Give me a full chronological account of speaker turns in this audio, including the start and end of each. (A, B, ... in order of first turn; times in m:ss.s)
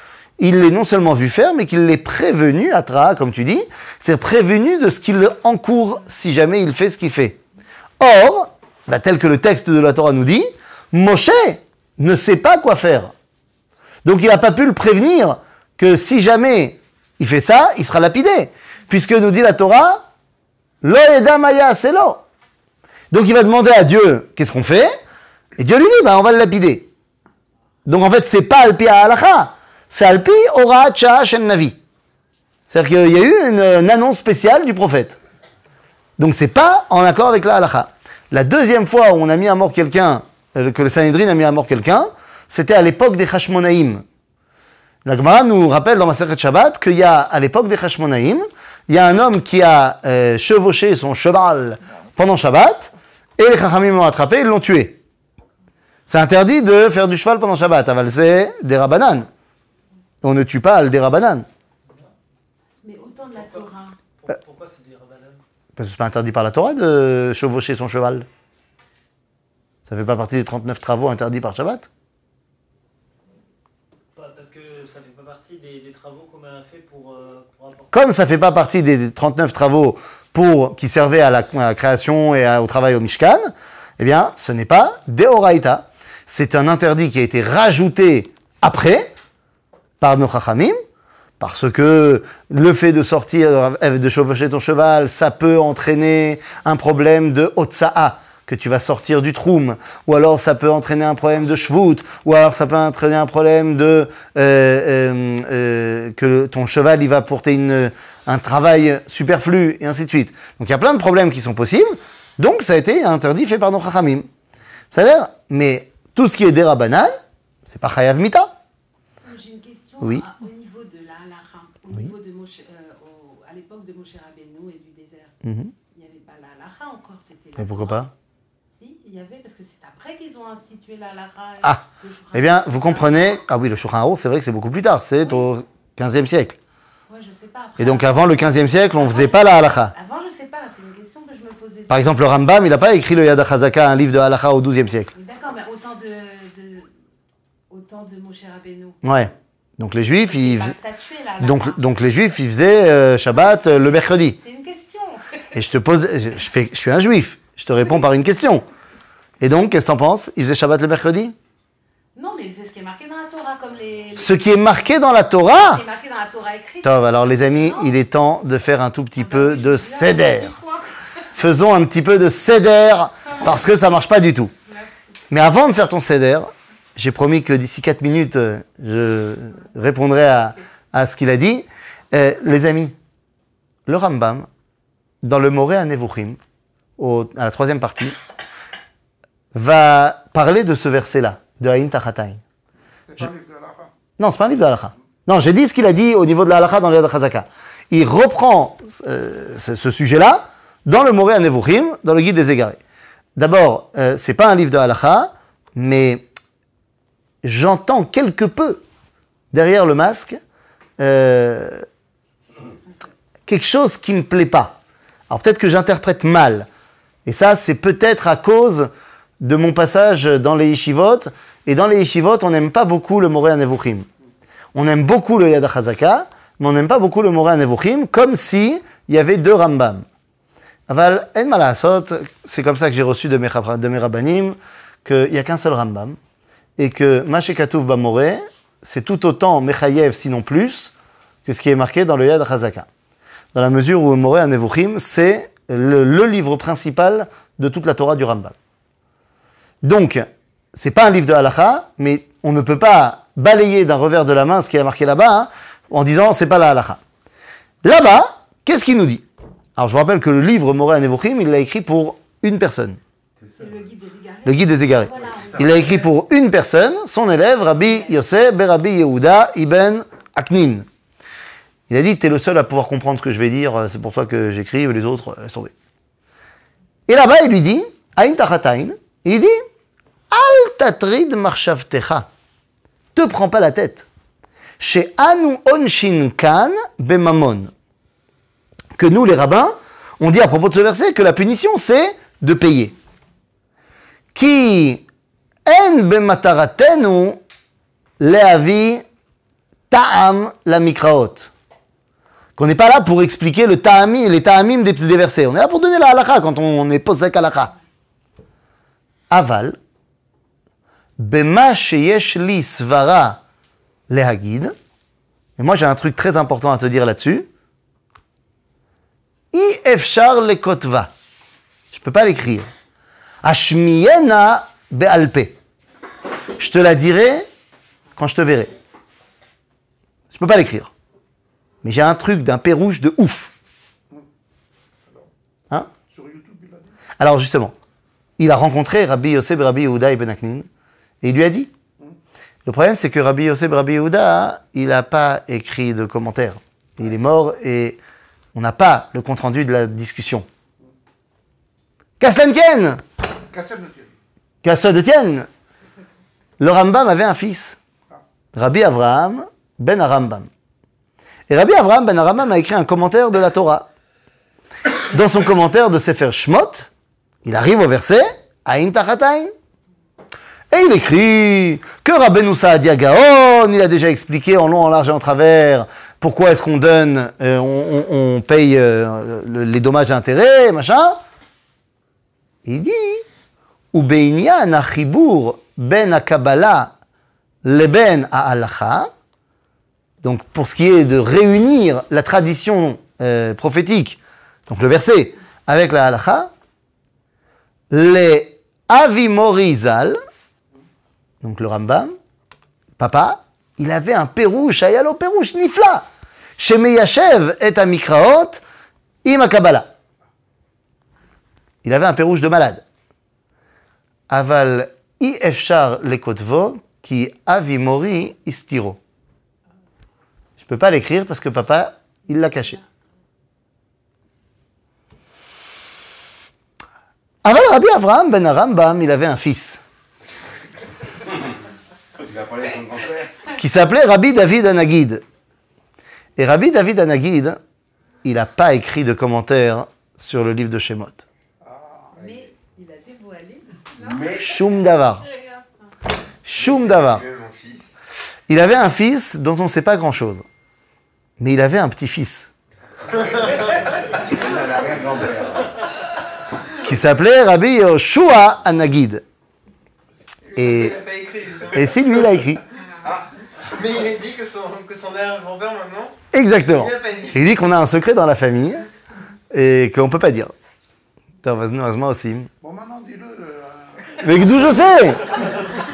0:00.4-0:07.4 A
0:08.0-0:13.1 A
0:14.0-0:20.0 A
0:20.8-0:22.2 A
0:23.1-0:24.9 A
0:25.6-0:26.9 A
0:27.9-0:31.8 A
0:32.7-0:35.2 A
0:36.2-0:44.0 A
0:45.0-0:55.0 A
0:56.1-0:59.3 A
1:00.2-1:01.5 A
1:02.8-1:04.0 B
1:04.2-1:05.4 C
1:05.8-1:08.3 A
1:09.9-1:11.9 A
1:14.1-1:18.0 C
1:17.9-1:29.1 A
1:30.0-1:30.8 A
1:31.4-1:54.3 A
1:54.9-1:58.5 A
1:59.2-2:05.4 B
2:05.4-2:05.7 A
2:05.9-2:08.1 B
2:07.6-2:08.1 A
2:08.8-2:13.3 B
2:11.6-2:16.6 A
2:17.1-2:22.2 B
2:17.8-2:19.9 A
2:21.9-2:25.1 A
2:25.2-2:26.9 B
2:27.7-2:29.0 B
2:29.0-2:30.8 A
2:30.2-2:31.8 B
2:31.4-2:34.4 A
2:34.3-2:35.4 B
2:35.5-2:38.6 A
2:39.4-2:41.4 A
2:42.2-2:48.0 B
2:44.2-2:45.8 A
2:46.8-2:50.5 A
2:49.2-2:50.9 B
2:51.3-2:54.5 A
2:54.7-2:55.0 B
2:55.3-3:03.0 A
3:03.9-3:04.5 A
3:05.2-3:06.4 A
3:07.0-3:08.2 A
3:09.5-3:12.4 A
3:13.1-3:13.9 D
3:14.2-3:22.8 A
3:23.4-3:26.2 A
3:27.4-3:28.8 A
3:29.5-3:30.4 A
3:31.0-3:31.8 A
3:33.5-3:34.8 A
3:35.3-3:36.7 A
3:37.3-3:44.1 A
3:44.8-3:50.0 A
3:50.9-3:56.2 A
3:56.8-4:00.9 A
4:01.4-4:02.9 A
4:03.5-4:08.6 A
4:09.8-4:17.0 A
4:17.8-4:19.2 A
4:19.8-4:23.0 A
4:23.6-4:26.1 B
4:24.4-4:30.9 A
4:25.3-4:25.7 E
4:27.8-4:28.1 B
4:31.9-4:35.7 A
4:37.1-4:39.6 A
4:40.3-4:42.3 A
4:43.2-4:44.1 A
4:44.8-4:47.7 A
4:49.0-4:53.0 A
4:54.3-4:55.0 A
4:55.6-4:57.4 A
4:58.2-4:59.0 A
4:59.9-5:01.5 A
5:02.6-5:07.7 A
5:09.3-5:09.8 A
5:11.2-5:13.4 A
5:14.1-5:14.7 A
5:15.6-5:17.5 A
5:19.5-5:21.1 A
5:21.9-5:22.7 A
5:23.4-5:25.6 A
5:26.6-5:27.5 A
5:28.2-5:28.7 A
5:30.3-5:30.9 A
5:31.8-5:33.5 A
5:36.1-5:37.0 D
5:37.2-5:37.7 A
5:38.4-5:40.7 A
5:41.2-5:41.7 A
5:42.6-5:48.0 A
5:48.5-5:50.5 A
5:52.2-5:53.0 A
5:53.5-5:54.1 D
5:54.6-5:55.5 A
5:56.6-5:57.8 A
5:58.5-6:00.5 A
6:01.5-6:03.9 A
6:05.1-6:06.9 A
6:07.4-6:09.5 A
6:10.7-6:21.2 A
6:22.6-6:23.2 A
6:23.9-6:26.9 A
6:27.6-6:29.1 A
6:30.2-6:36.5 A
6:37.9-6:40.2 A
6:41.4-6:42.2 A
6:43.0-6:46.0 A
6:46.6-6:48.6 A
6:49.2-6:49.9 A
6:51.8-6:52.8 A
6:54.3-6:59.0 A
7:00.6-7:02.8 A
7:07.4-7:09.8 A
7:12.2-7:13.4 E
7:13.6-7:15.2 A
7:16.4-7:17.6 A
7:18.2-7:21.2 A
7:21.6-7:22.2 D
7:22.2-7:24.2 B
7:22.2-7:22.5 E
7:24.0-7:24.6 E
7:24.4-7:25.2 A
7:25.3-7:25.6 B
7:26.4-7:27.2 A
7:26.6-7:27.9 E
7:28.5-7:30.4 A
7:31.4-7:32.5 A
7:33.3-7:35.7 E
7:36.8-7:39.2 A
7:40.5-7:42.2 F
7:40.6-7:41.0 A
7:41.7-7:42.6 A
7:43.7-7:47.4 F
7:46.3-7:48.9 A
7:49.5-7:50.5 A
7:51.4-7:52.5 A
7:52.6-7:54.3 D
7:54.2-7:55.4 A